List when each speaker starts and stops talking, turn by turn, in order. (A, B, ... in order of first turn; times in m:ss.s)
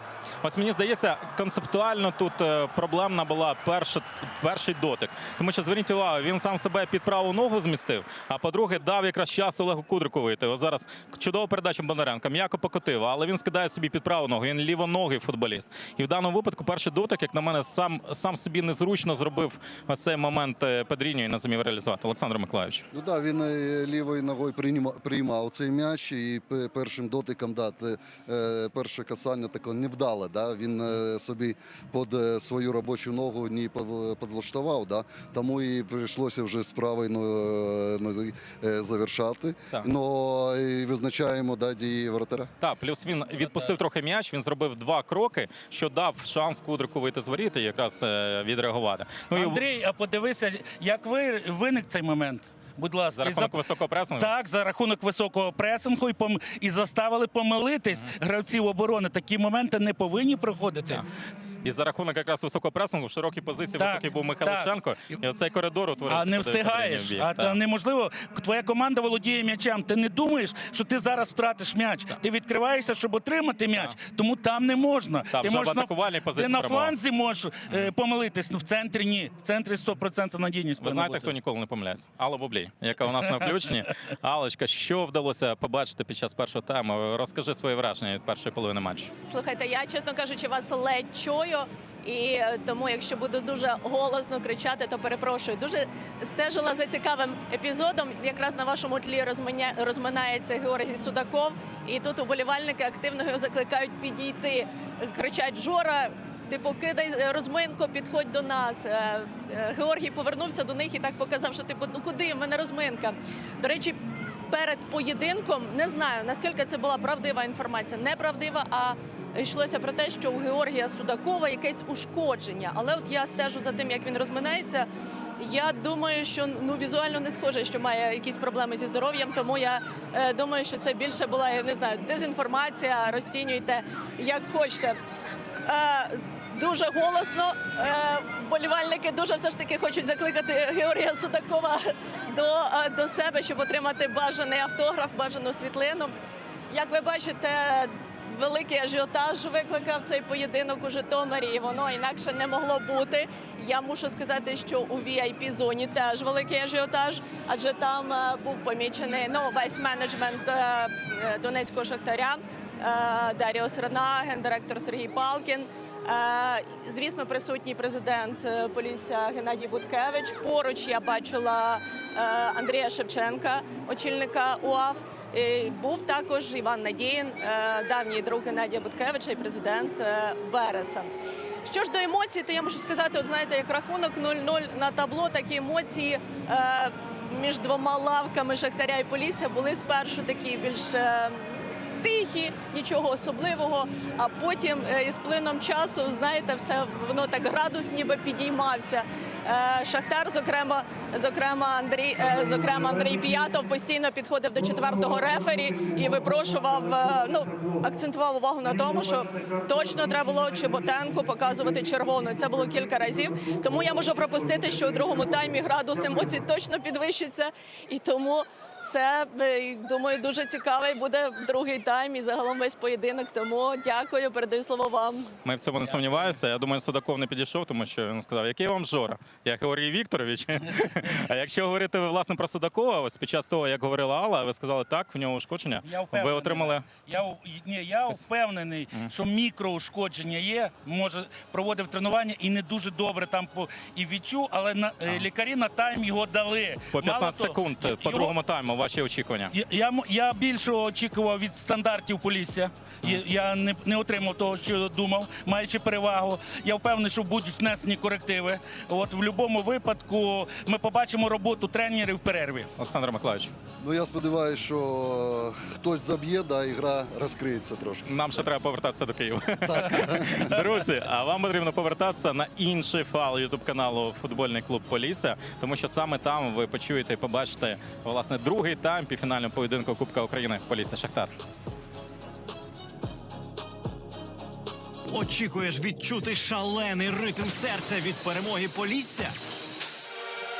0:00.4-0:22.8 A
0:22.9-0:42.5 B
0:42.6-0:49.6 A
0:49.3-0:53.6 C
0:53.2-0:54.3 A
0:54.1-1:01.0 C
1:01.6-1:07.6 A
1:03.8-1:04.7 C
1:06.1-1:21.3 C
1:15.3-1:16.9 A
1:20.8-1:29.1 A
1:29.2-2:04.9 D
2:05.4-2:15.0 D
2:15.6-2:26.1 D
2:26.7-3:01.1 D
3:01.6-3:45.3 D
3:45.4-3:56.8 A
3:55.8-4:08.3 C
4:06.9-4:09.5 A
4:09.5-4:22.7 C
4:22.8-4:23.5 A
4:23.8-4:28.2 B
4:28.1-4:41.3 A
4:29.6-4:30.5 B
4:45.1-4:49.3 E